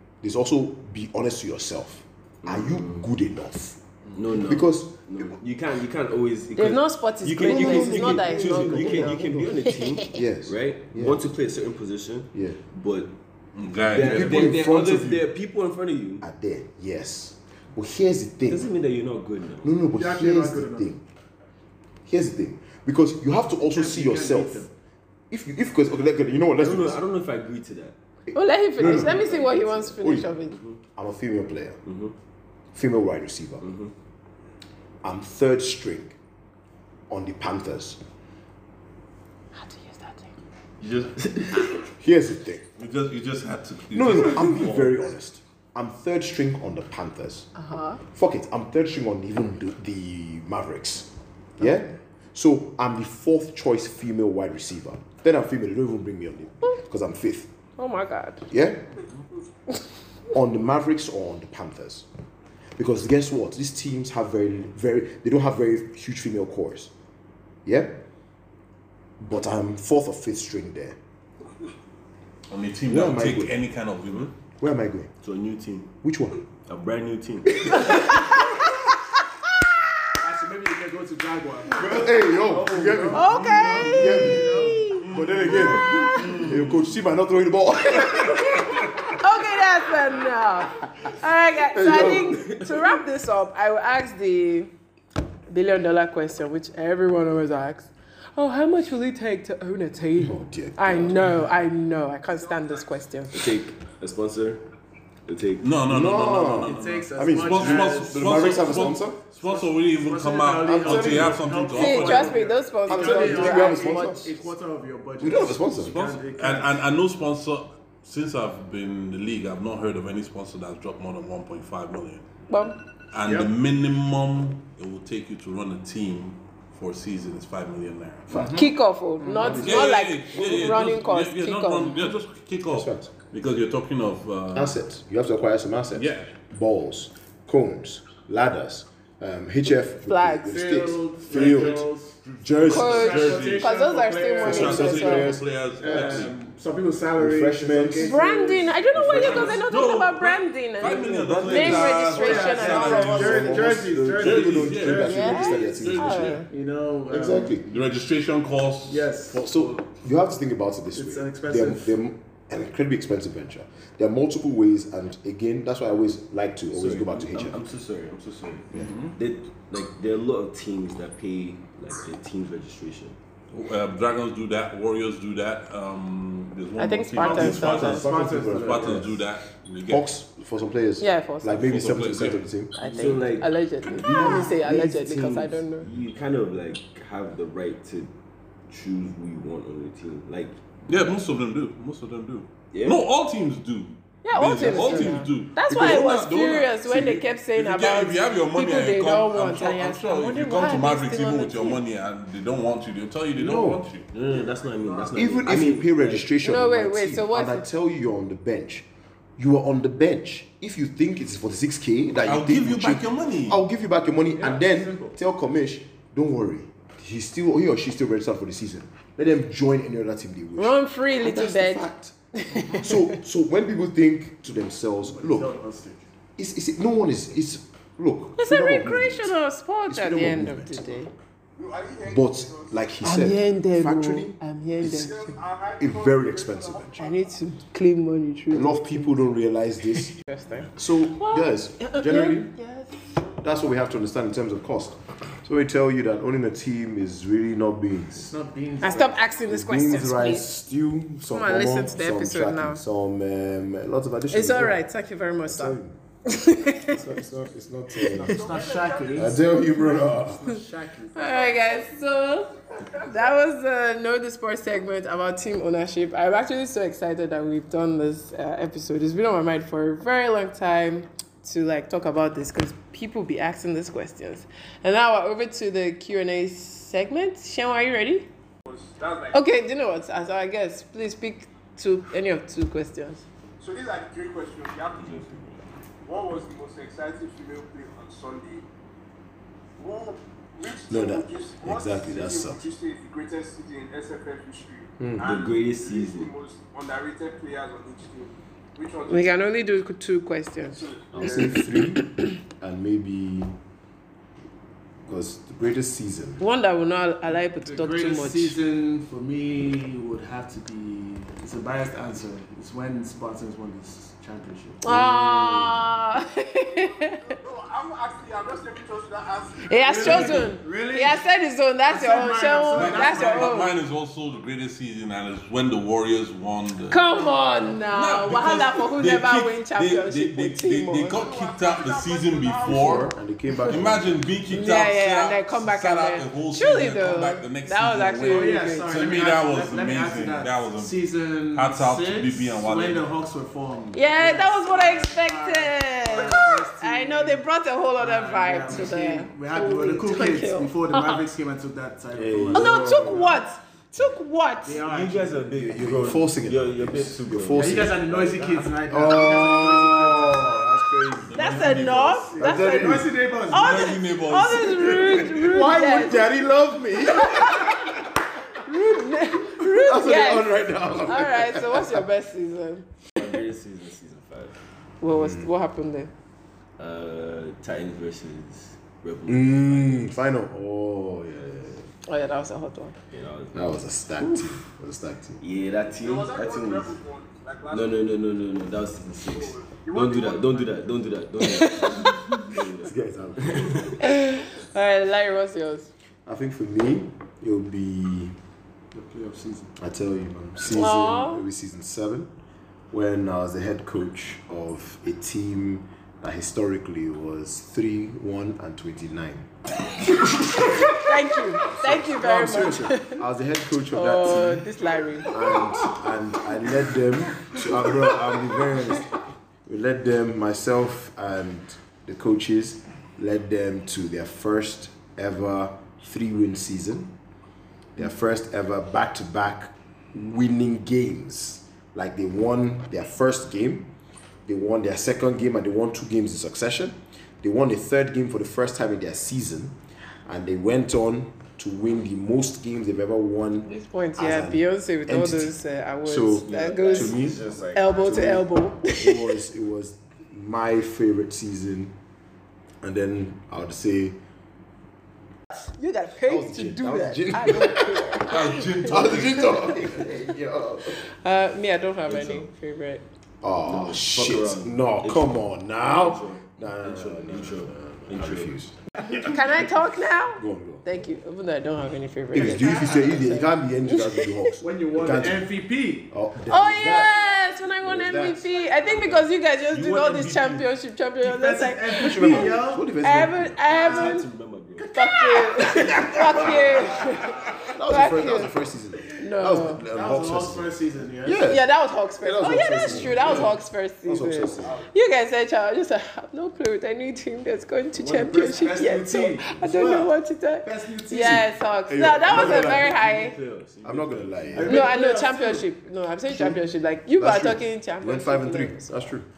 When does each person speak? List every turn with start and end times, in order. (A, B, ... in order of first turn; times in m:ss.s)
0:00.2-0:03.8 A
0:02.4-0:03.1 B
0:04.2-0:13.1 B
0:04.3-0:05.3 A
0:06.6-0:10.1 C
0:07.4-0:11.3 A
0:12.3-0:12.6 A
0:13.6-0:14.6 D
0:13.8-0:16.2 B
0:14.0-0:15.3 A
0:16.2-0:18.7 A
0:18.5-0:19.8 B
0:19.6-0:21.0 A
0:19.9-0:20.9 E
0:22.0-0:24.7 A
0:23.6-0:24.7 E
0:25.3-0:27.0 A
0:26.6-0:28.0 B
0:28.3-0:29.4 A
0:28.3-0:30.6 C
0:28.8-0:30.8 B
0:30.0-0:30.3 A
0:31.0-0:31.8 A
0:31.8-0:32.2 B
0:32.7-0:33.7 A
0:33.6-0:33.9 B
0:35.0-0:36.2 A
0:37.1-0:38.0 A
0:39.6-0:40.3 C
0:40.8-0:41.8 B
0:42.0-0:42.6 A
0:42.8-0:45.1 D
0:43.9-0:47.5 A
0:47.6-0:48.0 C
0:48.1-0:57.5 A
0:57.8-0:58.5 C
0:58.5-0:59.0 A
1:00.3-1:02.1 A
1:02.8-1:06.9 A
1:07.6-1:08.0 A
1:09.2-1:11.0 A
1:12.5-1:14.3 D
1:12.9-1:13.6 A
1:14.6-1:15.1 A
1:15.2-1:15.9 B
1:16.0-1:16.4 A
1:16.7-1:17.9 B
1:17.6-1:18.2 A
1:20.2-1:26.1 E
1:21.7-1:29.1 A
1:23.1-1:25.1 C
1:23.6-1:23.9 D
1:25.0-1:27.0 D
1:25.8-1:26.4 C
1:28.2-1:34.7 C
1:31.7-1:32.4 A
1:32.4-1:32.8 B
1:35.5-1:43.5 C
1:40.2-1:41.3 A
1:42.3-1:42.8 F
1:43.3-1:44.6 B
1:45.3-1:45.7 B
1:45.6-1:52.4 D
1:45.9-1:49.2 A
1:46.6-1:56.7 E
1:50.6-1:51.4 A
1:51.7-1:54.2 C
1:52.9-1:54.3 A
1:55.2-1:56.1 A
1:55.8-2:02.3 D
2:02.5-2:02.8 C
2:03.1-2:08.4 D
2:03.2-2:03.5 E
2:08.3-2:08.7 A
2:08.3-2:08.7 E
2:08.5-2:12.2 C
2:09.2-2:09.9 E
2:09.4-2:09.8 A
2:09.5-2:14.8 D
2:10.4-2:10.7 A
2:12.7-2:13.1 A
2:14.5-2:21.9 A
2:15.9-2:16.3 D
2:20.0-2:20.6 C
2:20.5-2:29.7 E
2:21.3-2:23.7 D
2:22.4-2:23.1 A
2:22.7-2:25.3 C
2:24.4-2:26.3 D
2:24.4-2:26.3 A
2:27.2-2:28.2 A
2:28.0-2:33.5 C
2:29.0-2:33.6 D
2:31.0-2:36.4 A
2:31.6-2:35.7 E
2:34.2-2:36.4 D
2:35.0-2:36.5 C
2:36.4-2:37.6 E
2:37.1-2:37.7 A
2:37.6-2:39.7 D
2:38.9-2:39.8 E
2:39.3-2:47.6 A
2:40.9-2:42.0 E
2:46.7-2:53.2 B
2:48.7-2:49.2 E
2:53.5-3:00.1 D
2:56.8-2:58.1 C
2:57.2-2:59.1 E
2:57.4-2:59.2 A
2:59.9-3:02.8 A
3:01.0-3:01.6 C
3:01.5-3:02.5 D
3:02.8-3:05.9 C
3:02.8-3:03.3 E
3:02.9-3:08.1 B
3:03.9-3:04.5 E
3:08.7-3:10.6 B
3:10.9-3:24.1 D
3:12.7-3:13.0 B
3:14.2-3:21.8 C
3:14.6-3:15.1 E
3:23.4-3:23.9 A
3:24.1-3:26.3 B
3:24.3-3:25.2 E
3:25.1-3:28.9 A
3:26.4-3:27.7 C
3:29.4-3:42.2 A
3:32.2-3:33.6 D
3:34.3-3:35.2 E
3:40.6-3:43.2 C
3:42.6-3:42.8 E
3:42.8-3:45.5 A
3:44.9-3:46.1 E
3:46.4-3:49.4 A
3:48.4-3:51.1 C
3:49.9-3:51.0 A
3:51.6-3:52.9 F
3:52.1-3:55.1 A
3:53.0-3:55.4 C
3:54.8-3:57.4 F
3:55.8-3:57.1 A
3:57.0-3:59.2 C
3:58.5-4:00.2 A
4:00.1-4:03.1 C
4:00.8-4:02.5 A
4:03.4-4:08.3 A
4:08.1-4:09.2 E
4:08.8-4:10.5 C
4:09.4-4:14.8 A
4:11.3-4:12.8 C
4:14.3-4:17.2 C
4:15.4-4:16.0 A
4:16.9-4:18.4 A
4:18.1-4:21.5 E
4:18.2-4:19.6 F
4:19.1-4:20.4 A
4:21.2-4:38.3 C
4:21.2-4:23.4 F
4:38.7-4:39.4 F
4:39.3-4:43.2 C
4:43.6-4:45.3 F
4:45.0-4:45.8 B
4:46.0-4:48.7 F
4:49.8-4:59.5 F
4:50.9-4:52.7 A
4:55.0-4:55.3 A
4:55.2-4:56.3 B
4:59.1-5:02.1 C
5:00.7-5:01.6 F
5:01.1-5:03.6 A
5:05.0-5:06.4 A
5:06.4-5:08.6 C
5:07.6-5:14.8 E
5:14.8-5:17.4 C
5:14.8-5:15.9 A
5:16.8-5:20.4 F
5:19.6-5:23.7 C
5:19.8-5:21.2 E
5:21.9-5:23.6 E
5:22.7-5:27.0 D
5:26.9-5:31.2 C
5:27.9-5:33.1 D
5:31.1-5:33.2 F
5:32.6-5:34.4 A
5:33.7-5:41.0 D
5:34.5-5:39.0 C
5:38.3-5:47.4 E
5:41.5-5:43.1 D
5:43.9-5:51.3 C
5:48.0-5:52.9 E
5:52.1-5:53.4 A
5:52.5-5:54.8 C
5:54.6-5:55.6 E
5:54.8-5:58.7 B
5:55.5-5:58.0 A
5:57.6-6:00.6 E
5:58.9-6:01.4 A
6:01.3-6:02.4 D
6:01.3-6:06.4 C
6:02.3-6:03.9 E
6:02.4-6:03.1 A
6:03.5-6:05.4 D
6:05.2-6:08.0 A
6:07.1-6:07.9 C
6:08.5-6:12.9 C
6:09.4-6:12.1 A
6:13.2-6:14.6 B
6:15.0-6:16.1 C
6:15.1-6:15.5 A
6:16.8-6:20.1 B
6:19.3-6:21.9 A
6:22.1-6:23.0 C
6:23.1-6:24.6 B
6:23.5-6:25.4 A
6:25.4-6:27.0 B
6:26.0-6:28.2 F
6:27.7-6:34.0 B
6:29.2-6:30.9 F
6:31.4-6:32.5 C
6:32.8-6:34.0 A
6:34.0-6:35.9 C
6:36.3-6:38.4 A
6:38.9-6:39.7 E
6:39.8-6:42.3 A
6:40.7-6:41.4 C
6:42.9-6:49.5 A
6:50.4-6:51.0 A
6:50.7-6:53.2 C
6:51.6-6:54.7 A
6:53.9-6:55.6 C
6:55.3-7:07.1 A
7:08.0-7:13.9 A
7:14.5-7:32.0 A
7:23.6-7:29.3 C
7:26.4-7:28.4 B
7:32.8-7:34.2 A
7:35.8-7:40.1 C
7:36.3-7:38.3 A
7:38.3-7:39.8 D
7:38.8-7:41.0 A
7:40.9-7:43.0 C
7:42.1-7:42.5 B
7:43.4-7:48.8 A
7:43.6-7:48.6 B
7:49.1-7:54.5 C
7:50.4-7:50.9 A
7:52.3-7:55.5 A
7:54.6-7:56.1 E
7:56.1-7:57.2 A
7:56.5-8:04.3 C
7:57.8-7:58.6 A
7:58.6-7:59.0 F
7:59.7-8:00.5 D
8:01.2-8:02.9 E
8:02.0-8:03.7 A
8:03.7-8:04.9 B
8:04.8-8:06.8 E
8:04.9-8:08.5 C
8:06.3-8:07.0 A
8:07.7-8:11.7 A
8:09.2-8:09.8 C
8:09.9-8:11.5 E
8:11.5-8:23.4 C
8:12.2-8:14.8 A
8:13.2-8:13.5 B
8:14.6-8:14.9 F
8:18.0-8:21.5 E
8:21.9-8:22.9 A
8:22.2-8:24.8 B
8:22.3-8:22.6 E
8:23.8-8:24.9 A
8:24.6-8:25.7 E
8:24.7-8:29.0 C
8:26.3-8:26.6 A
8:27.2-8:29.2 A